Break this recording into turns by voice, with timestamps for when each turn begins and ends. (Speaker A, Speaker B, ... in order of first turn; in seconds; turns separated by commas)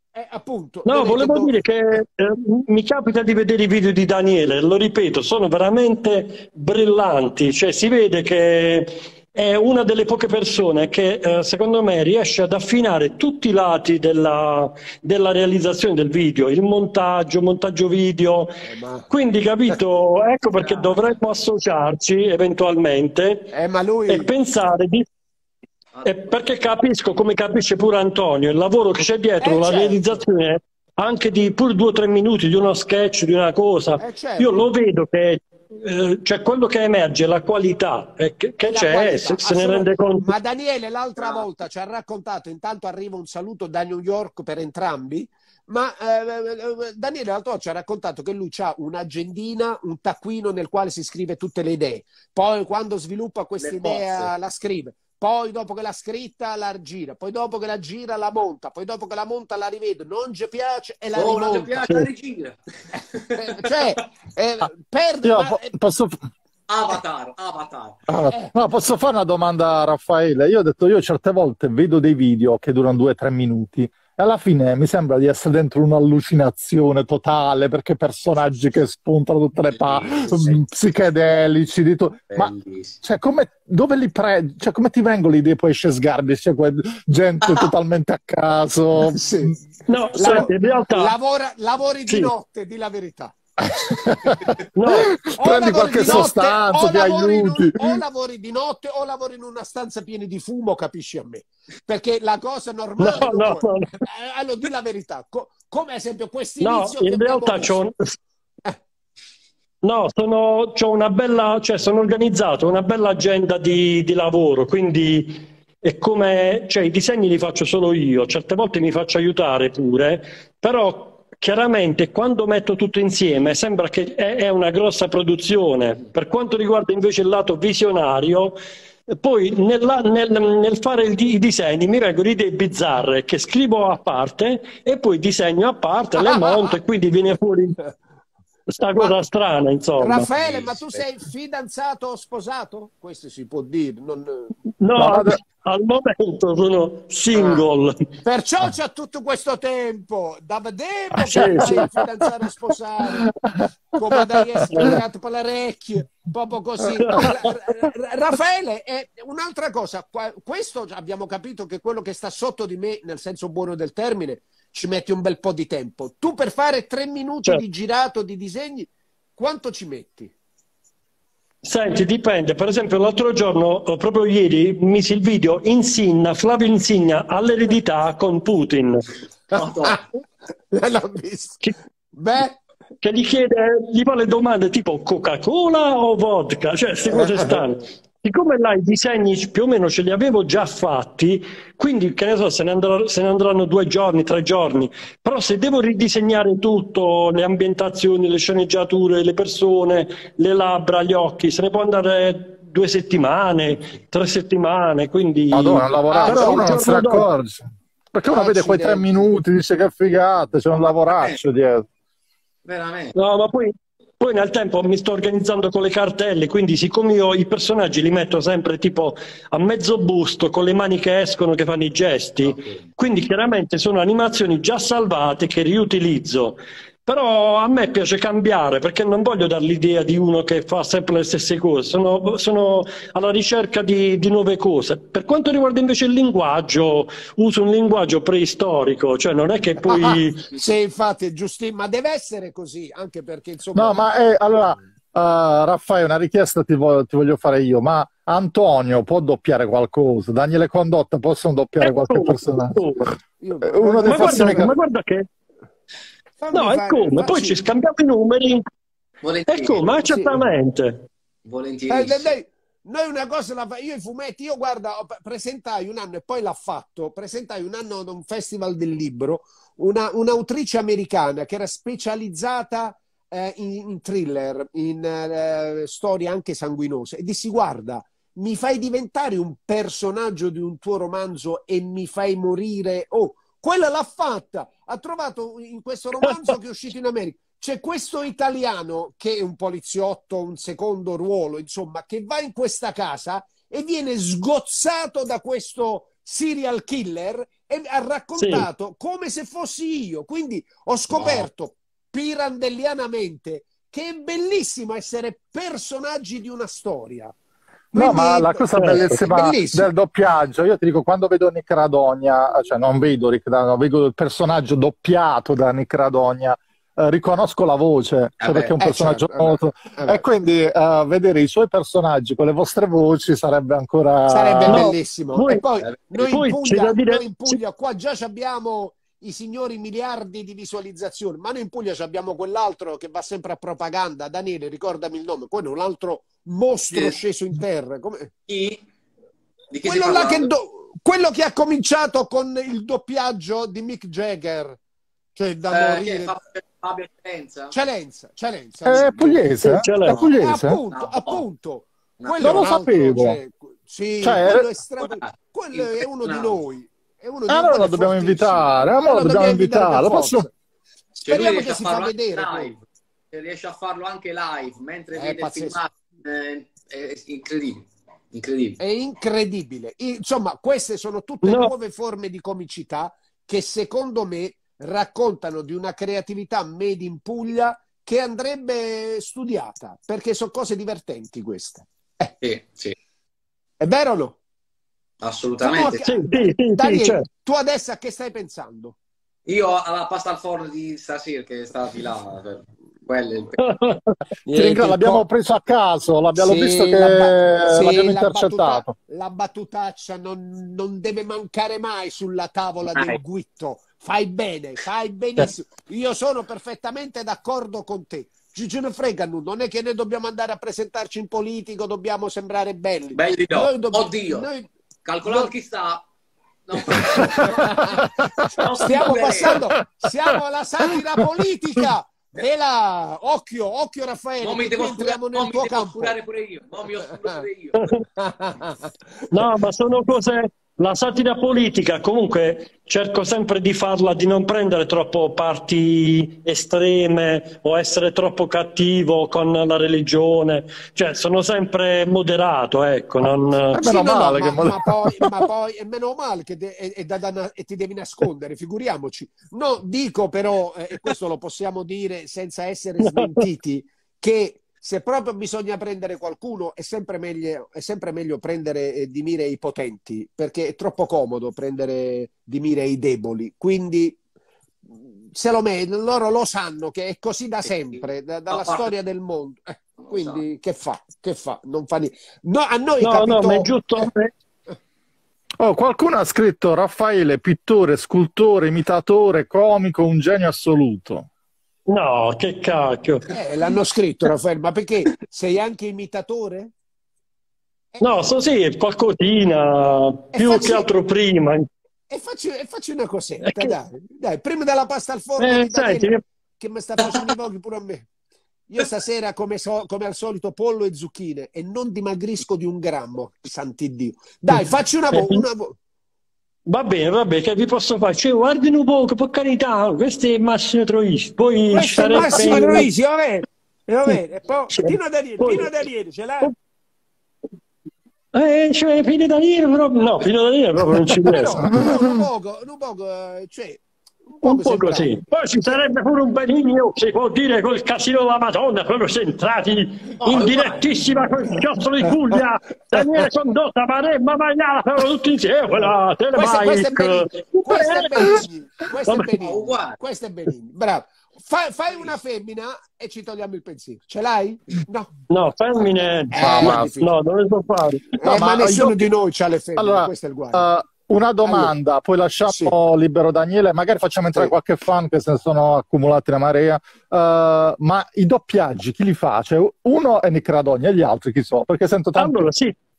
Speaker A: 0.1-1.6, Speaker B: 0.9-23.5, Speaker A: 18.6-19.1, Speaker C: 20.6-21.1, Speaker A: 23.5-24.3, Speaker B: 24.1-25.1, Speaker C: 25.9-26.3, Speaker B: 26.0-40.3, Speaker A: 29.4-30.2, Speaker A: 34.0-34.6, Speaker A: 38.6-61.7, Speaker C: 41.2-41.4, Speaker C: 53.6-54.3, Speaker C: 61.1-63.8, Speaker B: 61.8-62.1, Speaker A: 63.3-65.7, Speaker D: 65.2-66.2, Speaker C: 66.7-68.0, Speaker D: 68.1-89.6, Speaker C: 79.7-80.6, Speaker C: 82.3-83.0, Speaker C: 87.4-87.7, Speaker A: 89.1-89.6, Speaker B: 89.9-91.1, Speaker A: 90.2-93.3, Speaker D: 93.8-98.0, Speaker B: 94.8-95.2, Speaker A: 95.4-107.8, Speaker B: 103.0-103.9, Speaker B: 106.6-108.1, Speaker B: 109.8-128.6, Speaker B: 129.1-137.8, Speaker A: 136.2-136.7, Speaker B: 138.7-140.2, Speaker A: 140.0-144.5, Speaker C: 140.2-141.0, Speaker B: 144.8-148.1, Speaker D: 145.0-145.4, Speaker A: 147.3-147.6, Speaker A: 148.2-153.3, Speaker D: 151.2-151.9, Speaker B: 151.3-151.8, Speaker D: 153.2-155.0, Speaker A: 153.9-170.3, Speaker B: 154.7-155.0, Speaker B: 171.6-179.1, Speaker C: 179.5-180.1, Speaker A: 179.5-180.0, Speaker A: 180.7-181.6, Speaker A: 182.1-182.6, Speaker B: 183.0-207.3, Speaker A: 187.1-187.6, Speaker D: 205.5-211.9, Speaker A: 206.1-206.8, Speaker A: 208.3-209.3, Speaker C: 210.8-211.4, Speaker C: 212.6-213.1, Speaker B: 213.2-240.4, Speaker C: 222.4-222.8, Speaker A: 239.9-244.0, Speaker D: 243.7-252.8, Speaker B: 251.8-253.1, Speaker A: 253.4-254.7, Speaker D: 253.6-254.7, Speaker B: 254.1-255.3, Speaker A: 256.4-257.6, Speaker B: 256.5-258.6, Speaker C: 259.2-260.0, Speaker B: 259.5-261.0, Speaker A: 260.0-260.4, Speaker C: 261.4-262.3, Speaker A: 261.9-307.3, Speaker B: 298.4-298.7, Speaker C: 301.1-301.4, Speaker D: 307.9-324.9, Speaker A: 307.9-309.9, Speaker B: 308.8-309.0, Speaker C: 318.4-318.7, Speaker A: 318.8-320.2, Speaker A: 324.3-338.3, Speaker B: 324.7-325.6, Speaker B: 326.2-327.6, Speaker C: 336.9-337.2, Speaker C: 338.5-338.9, Speaker C: 339.7-340.5, Speaker A: 339.8-344.8, Speaker A: 345.4-346.4, Speaker C: 345.7-347.7, Speaker A: 347.7-349.5, Speaker D: 348.9-350.8, Speaker B: 349.6-350.2, Speaker A: 350.1-360.5, Speaker C: 350.2-351.4, Speaker C: 352.2-352.7, Speaker D: 352.4-353.4, Speaker D: 354.2-354.7, Speaker C: 355.0-356.6, Speaker D: 357.5-360.5, Speaker C: 361.2-368.8, Speaker A: 361.3-362.7, Speaker A: 365.1-365.8, Speaker A: 368.8-382.3, Speaker B: 371.4-371.7, Speaker C: 382.4-382.9, Speaker A: 383.8-384.4, Speaker C: 385.2-386.1, Speaker A: 385.6-388.9, Speaker B: 386.1-387.2, Speaker C: 389.5-393.6, Speaker B: 393.6-394.1, Speaker A: 394.4-395.2, Speaker D: 394.6-398.9, Speaker A: 396.4-414.7, Speaker C: 413.1-414.5, Speaker C: 415.1-416.1, Speaker A: 415.2-415.5, Speaker C: 416.6-419.6, Speaker A: 417.1-418.0, Speaker D: 418.2-419.6, Speaker A: 418.8-426.1, Speaker C: 424.4-427.9, Speaker A: 428.2-428.9, Speaker B: 429.3-443.8, Speaker D: 443.7-445.4, Speaker A: 443.7-464.2, Speaker B: 453.0-453.4, Speaker A: 464.9-474.1, Speaker C: 467.9-468.9, Speaker C: 470.0-470.4, Speaker B: 473.0-474.3, Speaker D: 475.6-481.3, Speaker B: 481.9-483.4, Speaker A: 483.3-486.7, Speaker A: 487.9-488.3, Speaker B: 488.0-491.7, Speaker A: 490.3-490.9, Speaker A: 492.1-498.1, Speaker B: 493.4-493.7, Speaker B: 495.4-496.2, Speaker A: 498.7-505.8, Speaker B: 505.1-505.4, Speaker B: 506.7-512.9, Speaker A: 511.7-516.5, Speaker D: 512.4-512.6, Speaker B: 514.7-515.7, Speaker B: 518.3-521.7, Speaker A: 521.2-525.1, Speaker D: 521.7-522.2, Speaker B: 524.4-538.4, Speaker C: 530.2-531.1, Speaker A: 536.3-545.1, Speaker C: 539.4-540.0, Speaker B: 545.3-548.2, Speaker A: 546.3-547.1, Speaker D: 546.4-546.9, Speaker A: 548.2-550.6, Speaker D: 548.3-549.0, Speaker D: 549.8-562.5, Speaker A: 551.4-551.7, Speaker A: 552.5-552.7, Speaker B: 562.1-562.7